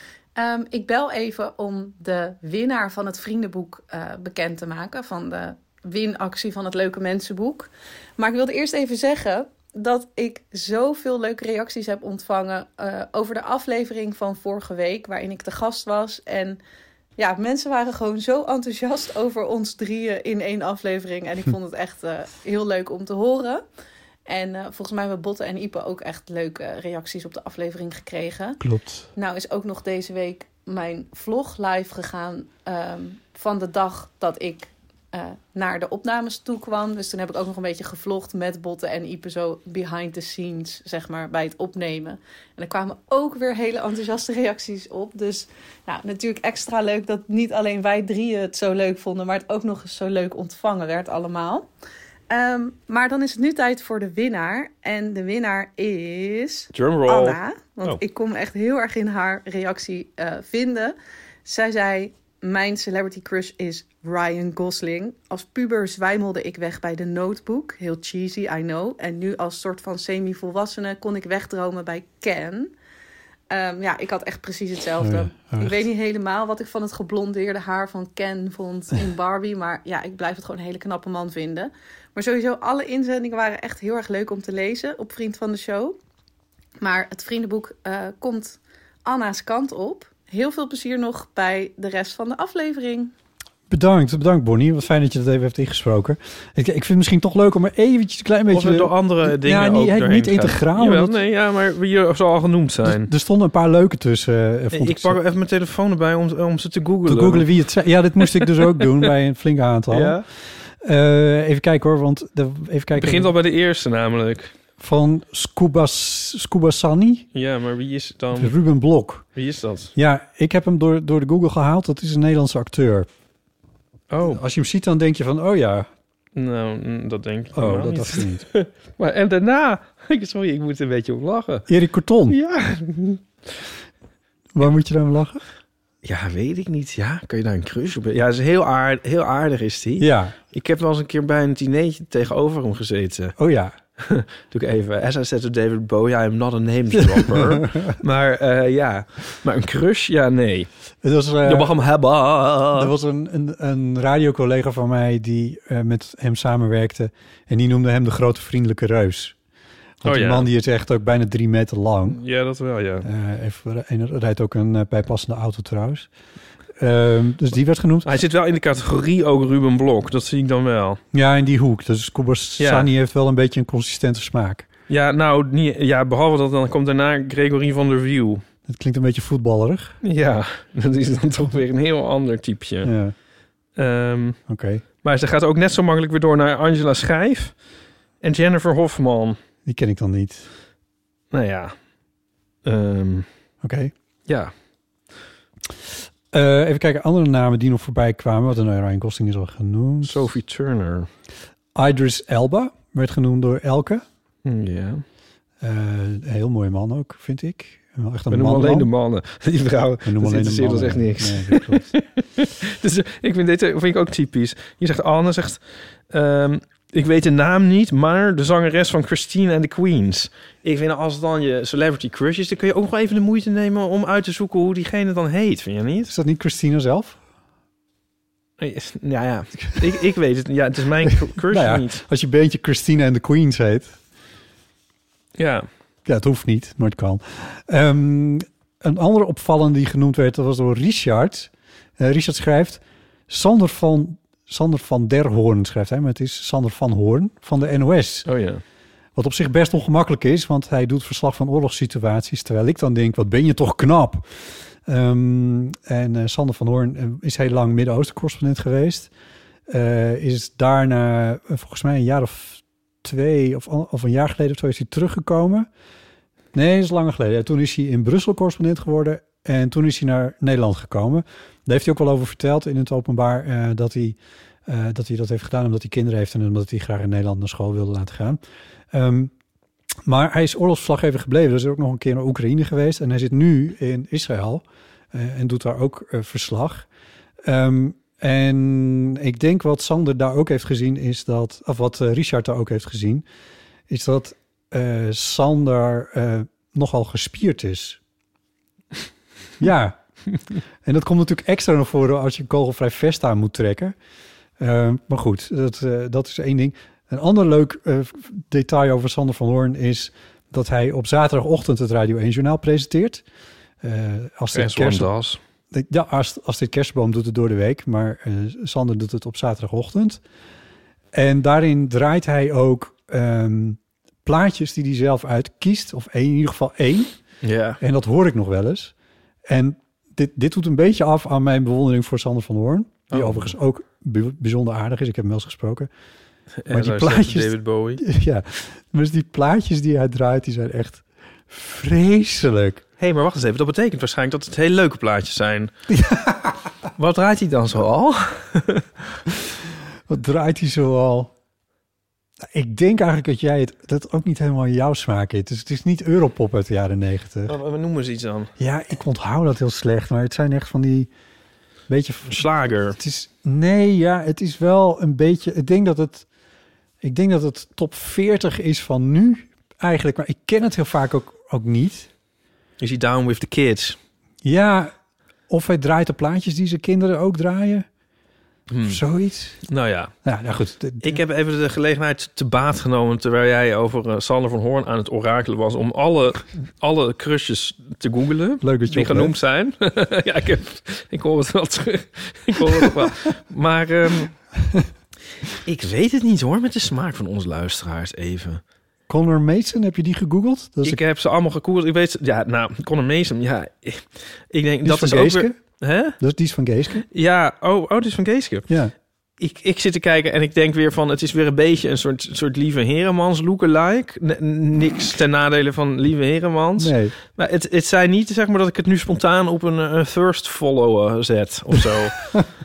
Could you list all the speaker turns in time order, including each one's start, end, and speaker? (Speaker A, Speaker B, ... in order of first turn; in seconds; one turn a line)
Speaker A: 0.4-16.6
Speaker A: 17.2-23.6
Speaker A: 24.2-28.6
Speaker B: 28.6-29.1
Speaker A: 29.2-51.7
Speaker A: 52.3-72.7
Speaker C: 56.7-58.0
Speaker A: 73.5-86.0
Speaker B: 75.0-75.8
Speaker A: 86.8-93.1
Speaker B: 93.7-101.2
Speaker C: 98.5-103.1
Speaker B: 102.8-105.2
Speaker C: 104.7-107.5
Speaker B: 107.1-110.3
Speaker C: 108.2-109.1
Speaker C: 109.9-110.2
Speaker B: 110.8-113.3
Speaker C: 113.0-114.5
Speaker B: 114.8-117.3
Speaker C: 117.3-118.5
Speaker B: 118.3-119.2
Speaker C: 119.3-119.9
Speaker B: 120.0-123.1
Speaker C: 124.1-124.4
Speaker B: 124.3-125.9
Speaker C: 126.3-131.7
Speaker B: 127.5-128.4
Speaker B: 131.7-132.4
Speaker C: 132.3-133.2
Speaker B: 134.5-135.4
Speaker C: 136.0-143.3
Speaker B: 140.0-140.3
Speaker B: 143.4-143.8
Speaker C: 144.0-150.7
Speaker B: 146.9-147.9
Speaker B: 151.0-151.8
Speaker C: 151.4-152.9
Speaker B: 152.7-159.3
Speaker B: 160.0-162.2
Speaker C: 160.1-160.5
Speaker C: 162.1-163.1
Speaker B: 163.0-166.1
Speaker B: 166.8-168.1
Speaker C: 168.1-171.0
Speaker B: 171.1-174.7
Speaker C: 172.6-172.9
Speaker C: 174.9-178.4
Speaker B: 178.7-179.9
Speaker C: 180.0-182.9
Speaker B: 182.8-183.2
Speaker C: 183.8-184.4
Speaker B: 184.5-184.8
Speaker C: 185.0-187.5
Speaker C: 188.2-189.4
Speaker B: 189.7-190.5
Speaker C: 191.3-191.7
Speaker C: 192.7-193.3
Speaker B: 193.6-193.9
Speaker C: 194.3-194.5
Speaker B: 196.3-200.3
Speaker C: 200.0-201.1
Speaker B: 201.8-204.0
Speaker C: 204.4-205.0
Speaker B: 205.6-208.9
Speaker C: 208.3-226.1
Speaker B: 210.0-211.9
Speaker B: 226.1-227.2
Speaker C: 228.6-232.0
Speaker B: 231.1-234.0
Speaker C: 235.4-235.7
Speaker B: 236.1-248.3
Speaker C: 248.3-248.6
Speaker B: 249.2-259.1
Speaker B: 259.7-265.7
Speaker B: 266.5-278.4
Speaker B: 278.9-279.3
Speaker B: 280.1-286.9
Speaker B: 287.4-293.2
Speaker B: 293.9-298.0
Speaker B: 299.6-300.0
Speaker B: 300.8-303.9
Speaker B: 304.6-313.2
Speaker B: 313.8-315.1
Speaker C: 314.5-315.4
Speaker B: 315.7-320.2
Speaker B: 321.1-327.1
Speaker C: 327.4-327.8
Speaker B: 327.8-328.9
Speaker B: 329.5-335.9
Speaker C: 333.1-333.5
Speaker C: 336.6-338.0
Speaker B: 336.7-342.8
Speaker C: 343.0-345.7
Speaker B: 345.9-346.6
Speaker C: 346.9-348.9
Speaker B: 350.1-351.3
Speaker B: 352.4-357.6
Speaker C: 357.5-358.5
Speaker B: 358.6-361.1
Speaker B: 361.9-366.3
Speaker C: 362.3-363.0
Speaker B: 367.0-372.1
Speaker C: 372.8-374.0
Speaker B: 374.4-374.9
Speaker B: 375.5-377.9
Speaker C: 378.7-379.0
Speaker B: 378.8-379.6
Speaker C: 379.7-380.1
Speaker B: 380.2-381.2
Speaker C: 381.0-394.4
Speaker B: 388.6-389.3
Speaker B: 392.8-393.1
Speaker C: 395.5-398.6
Speaker B: 399.1-401.0
Speaker C: 400.8-406.2
Speaker B: 404.8-405.6
Speaker B: 406.2-407.1
Speaker C: 407.1-408.7
Speaker B: 408.7-408.9
Speaker C: 409.4-422.4
Speaker B: 416.8-417.2